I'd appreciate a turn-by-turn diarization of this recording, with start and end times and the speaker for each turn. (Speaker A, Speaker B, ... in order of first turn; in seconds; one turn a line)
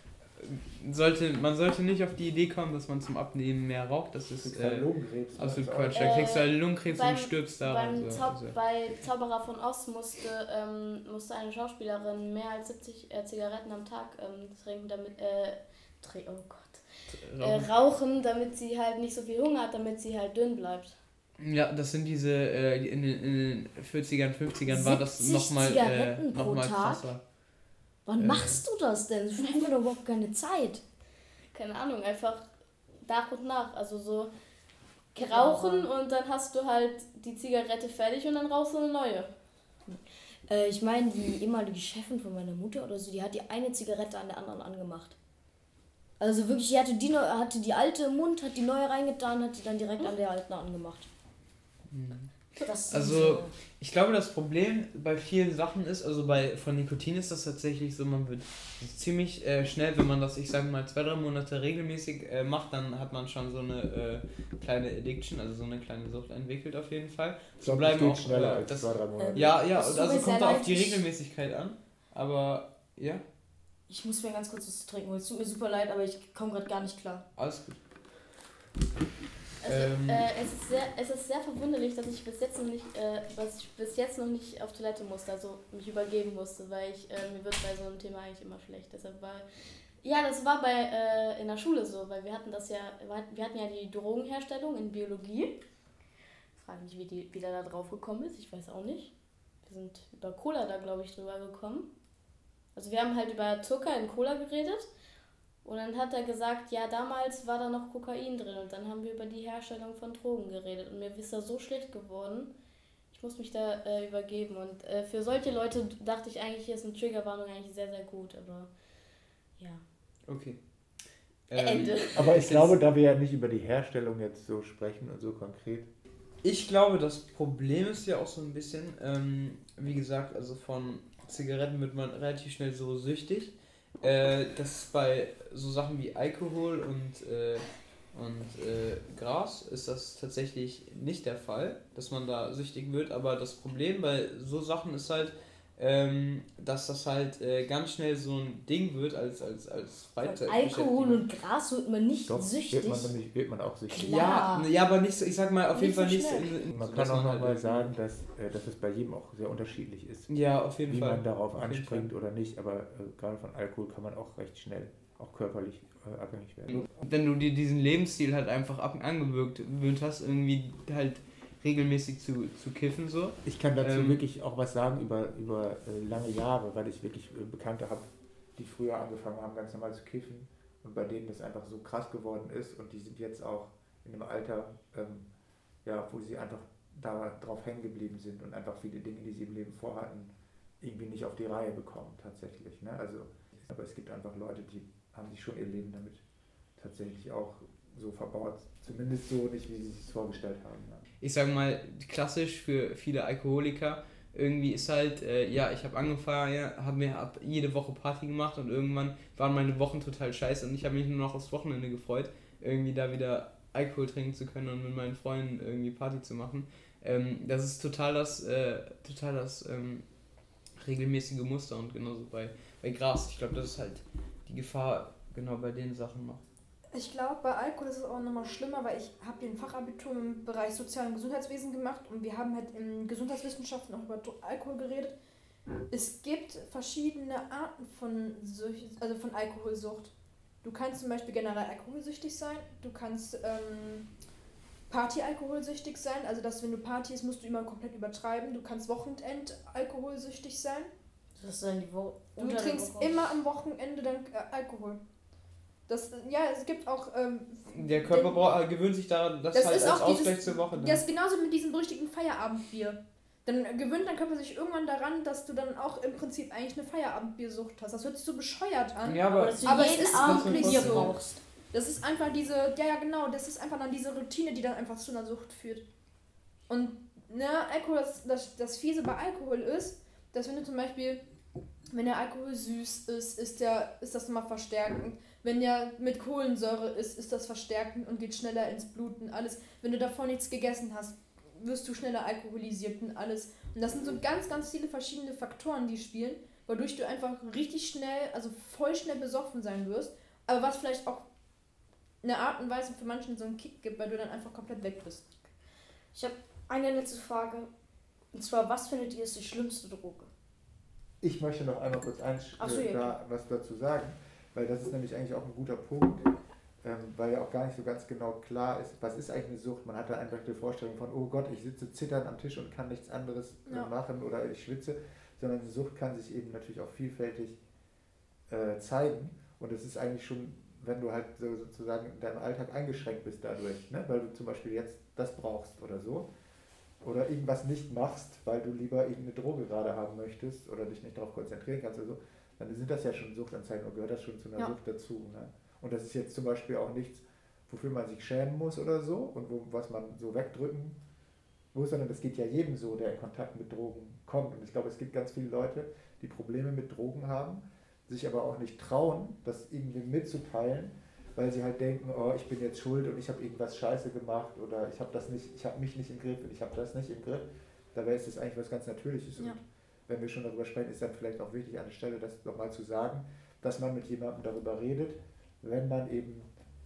Speaker A: 0.3-8.6
Speaker B: 4.4-6.3
Speaker C: 6.0-16.8
Speaker A: 17.1-17.7
Speaker C: 17.4-21.0
Speaker A: 21.4-27.2
Speaker D: 24.6-27.0
Speaker D: 28.1-30.8
Speaker A: 28.2-28.6
Speaker C: 31.5-32.5
Speaker C: 33.0-34.3
Speaker C: 35.1-39.3
Speaker D: 35.1-35.9
Speaker D: 39.9-45.2
Speaker D: 46.2-51.1
Speaker A: 51.9-52.3
Speaker D: 52.6-53.5
Speaker A: 52.9-73.2
Speaker B: 67.6-69.6
Speaker D: 69.2-71.0
Speaker D: 73.9-77.2
Speaker A: 77.4-77.8
Speaker C: 79.6-89.5
Speaker A: 79.7-80.3
Speaker C: 90.0-95.6
Speaker C: 96.5-99.1
Speaker C: 99.7-101.9
Speaker C: 102.7-104.9
Speaker C: 105.6-112.5
Speaker C: 113.1-118.7
Speaker C: 119.6-119.8
Speaker A: 120.3-120.6
Speaker A: 121.5-122.8
Speaker C: 121.5-122.2
Speaker B: 122.1-125.9
Speaker A: 126.4-151.2
Speaker D: 150.2-153.1
Speaker B: 152.3-154.3
Speaker D: 153.9-154.7
Speaker A: 154.1-157.9
Speaker C: 155.7-156.5
Speaker B: 156.7-160.3
Speaker A: 160.3-162.1
Speaker B: 160.8-166.9
Speaker A: 166.7-174.2
Speaker B: 173.4-185.3
Speaker B: 185.8-196.2
Speaker B: 196.8-201.1
Speaker A: 201.2-220.0
Speaker A: 220.8-226.4
Speaker E: 226.9-235.1
Speaker E: 235.9-240.1
Speaker E: 240.6-244.1
Speaker E: 244.9-250.9
Speaker D: 251.4-253.2
Speaker E: 252.4-255.0
Speaker E: 255.9-258.4
Speaker A: 257.7-261.0
Speaker E: 259.5-271.2
Speaker A: 269.0-271.1
Speaker D: 269.3-271.4
Speaker E: 271.7-275.8
Speaker E: 276.7-281.2
Speaker E: 281.9-301.2
Speaker E: 302.2-305.2
Speaker D: 306.1-307.7
Speaker D: 308.3-310.3
Speaker B: 311.2-316.3
Speaker D: 312.6-313.1
Speaker B: 316.8-327.6
Speaker B: 328.5-336.3
Speaker B: 337.0-351.0
Speaker B: 351.7-376.5